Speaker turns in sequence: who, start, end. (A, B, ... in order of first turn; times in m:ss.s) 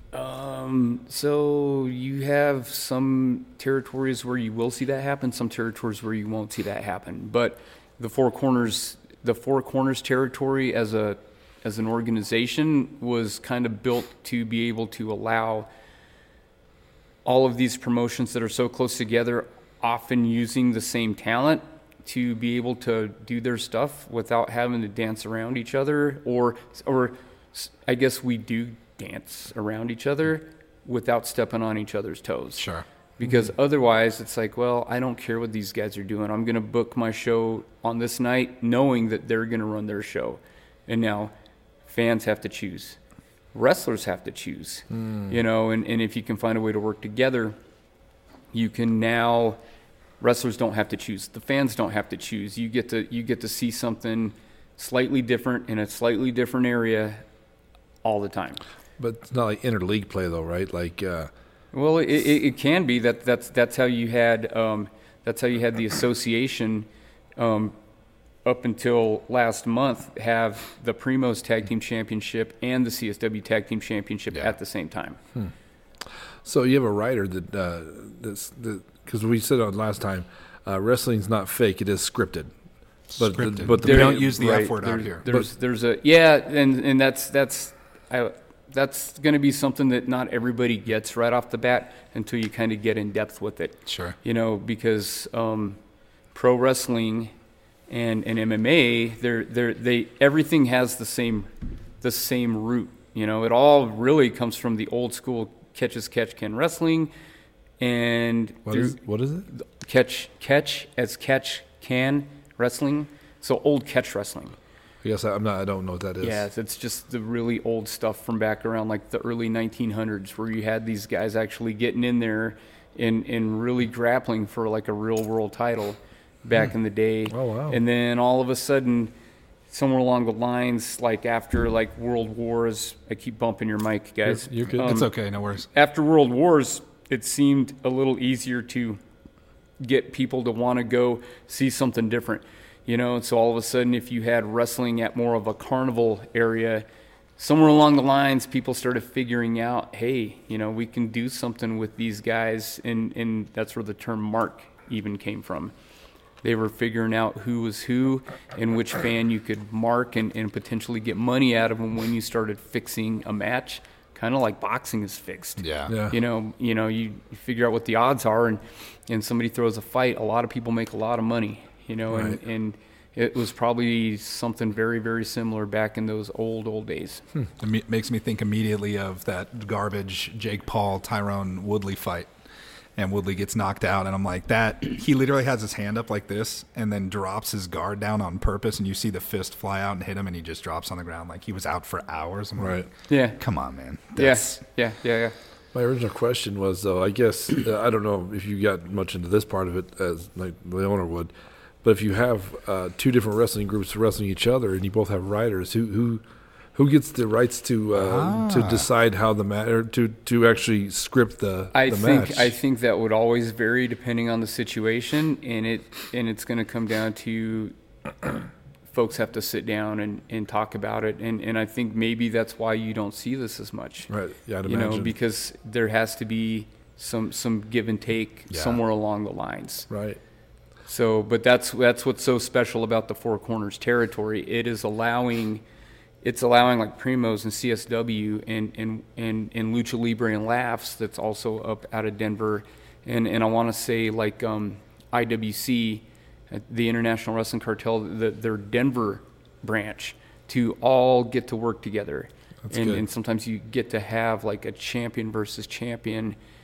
0:00.1-0:15.7 A
0:17.2-0:32.7 A
0:32.6-0:32.8 B
0:33.2-0:41.3 A
0:41.9-0:43.0 A
0:43.5-0:47.6 A
0:45.0-0:45.3 C
0:48.5-0:49.6 A
0:50.2-0:57.2 A
0:58.0-0:58.6 A
0:59.0-1:01.3 C
1:01.7-1:07.8 A
1:08.4-1:15.2 A
1:16.4-1:22.5 C
1:23.1-1:25.2 B
1:23.2-1:24.4 C
1:23.8-1:35.8 A
1:33.9-1:34.2 B
1:36.3-1:37.3 A
1:37.9-1:41.5 A
1:42.0-1:47.1 A
1:47.8-1:54.6 A
1:48.7-1:49.5 C
1:55.0-1:56.5 C
1:56.2-2:09.1 A
2:07.3-2:07.8 C
2:09.7-2:15.1 A
2:14.3-2:15.0 C
2:14.8-2:15.7 B
2:15.7-2:19.0 A
2:19.8-2:26.9 A
2:27.4-2:35.7 A
2:36.4-2:57.2 A
2:45.6-2:45.9 B
2:45.9-2:46.2 C
2:52.1-2:52.4 C
2:57.6-3:02.3 B
3:03.0-3:14.6 B
3:12.6-3:12.9 C
3:13.1-3:13.4 A
3:14.2-3:15.4 A
3:15.7-3:21.3 C
3:21.8-3:26.2 C
3:26.8-3:32.5 C
3:28.0-3:28.9 B
3:31.7-3:37.7 A
3:38.9-3:44.1 A
3:44.1-3:45.2 C
3:44.7-3:49.9 A
3:48.5-3:48.8 B
3:49.9-3:50.2 C
3:50.9-3:55.6 A
3:56.2-4:16.4 A
4:12.7-4:13.0 C